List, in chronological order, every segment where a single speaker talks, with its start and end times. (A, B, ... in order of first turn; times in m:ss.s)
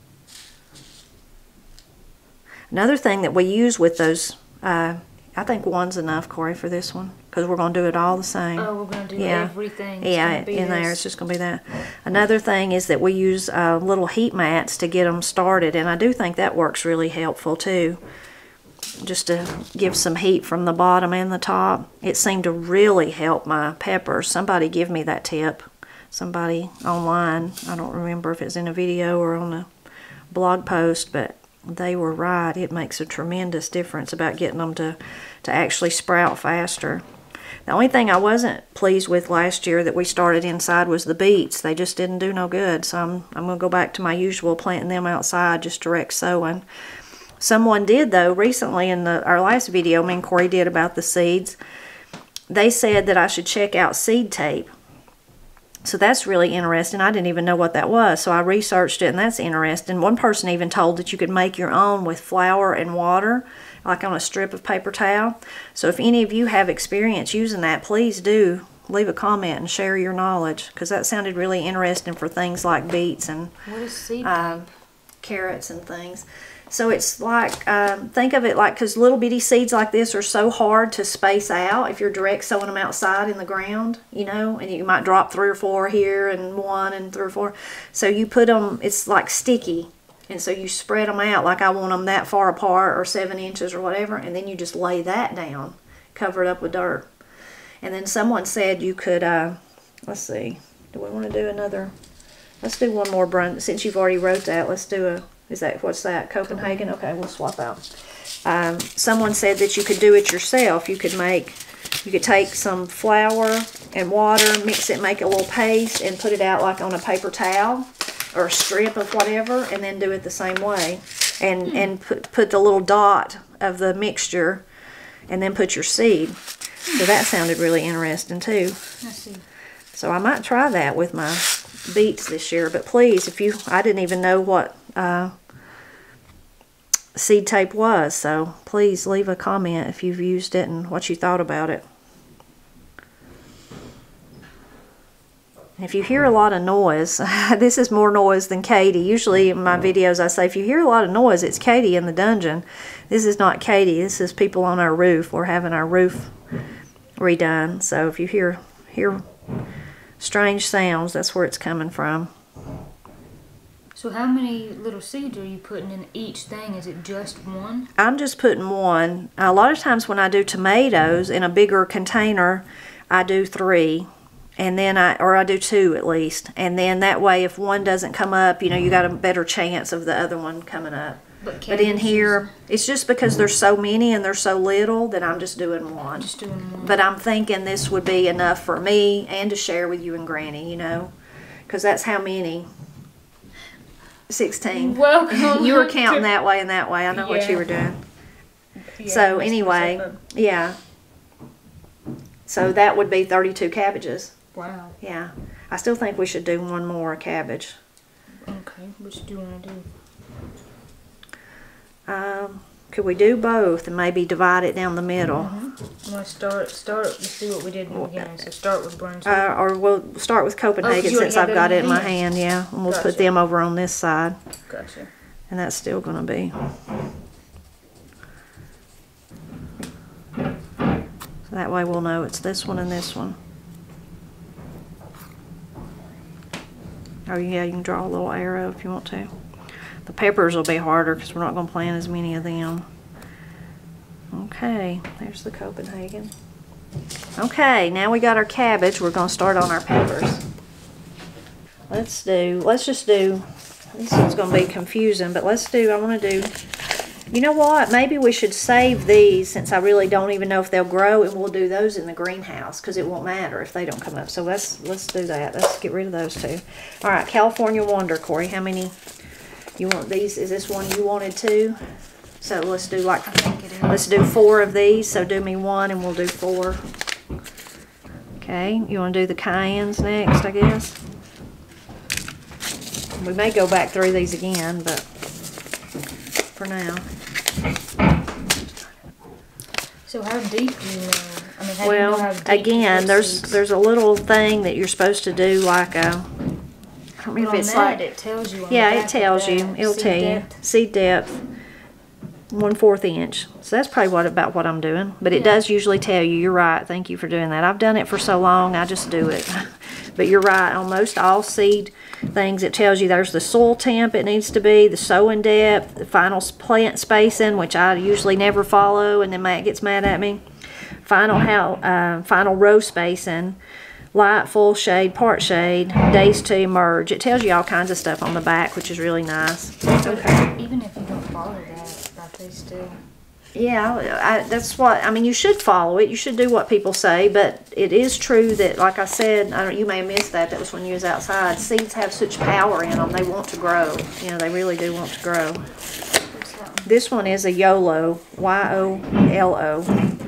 0:02.7-0:18.0 A
0:08.6-0:11.0 B
0:19.0-0:29.7 A
0:30.3-0:37.0 A
0:37.7-0:46.6 A
0:47.4-0:51.6 A
0:52.5-0:54.7 A
0:55.8-1:13.5 A
1:13.7-1:14.6 B
1:14.2-1:14.7 A
1:15.2-1:37.1 A
1:37.8-1:41.9 A
1:42.6-1:47.8 A
1:48.4-2:04.6 A
2:05.3-2:08.8 A
2:09.0-2:09.4 B
2:09.9-2:15.3 A
2:17.2-2:21.8 A
2:25.8-2:36.3 A
2:37.2-2:39.2 A
2:40.2-2:42.3 A
2:44.0-2:47.9 B
2:48.0-3:06.3 A
3:01.4-3:02.5 B
3:06.2-3:07.0 B
3:06.8-3:11.1 A
3:11.7-3:12.7 A
3:14.3-3:18.0 A
3:14.7-3:16.3 B
3:17.1-3:17.7 B
3:19.0-3:20.2 B
3:19.0-3:20.8 A
3:22.5-3:24.3 A
3:24.5-3:25.0 B
3:25.0-3:27.8 A
3:28.4-3:29.9 B
3:32.1-3:35.5 A
3:35.4-3:39.5 B
3:37.9-3:38.3 A
3:39.2-3:44.4 A
3:40.8-3:42.2 B
3:42.9-3:43.3 B
3:44.7-3:45.1 B
3:45.5-3:46.5 A
3:51.5-3:53.4 A
3:57.3-3:59.3 A
4:00.1-4:02.9 A
4:04.3-4:06.3 A
4:07.4-4:10.4 A
4:11.9-4:13.4 A
4:14.0-4:16.5 A
4:17.3-4:29.0 A
4:29.8-4:31.8 A
4:32.4-4:36.8 A
4:33.2-4:34.2 B
4:38.4-4:41.0 A
4:43.2-4:45.0 A
4:46.6-4:47.1 A
4:50.1-4:53.6 B
4:51.8-4:56.3 A
4:57.2-4:58.0 A
4:57.4-5:00.6 B
4:58.7-5:01.4 A
5:02.5-5:20.4 A
5:05.3-5:05.6 B
5:21.0-5:23.6 A
5:24.1-5:30.5 A
5:30.0-5:33.0 B
5:33.6-5:45.6 A
5:46.3-5:46.9 B
5:46.8-5:49.9 A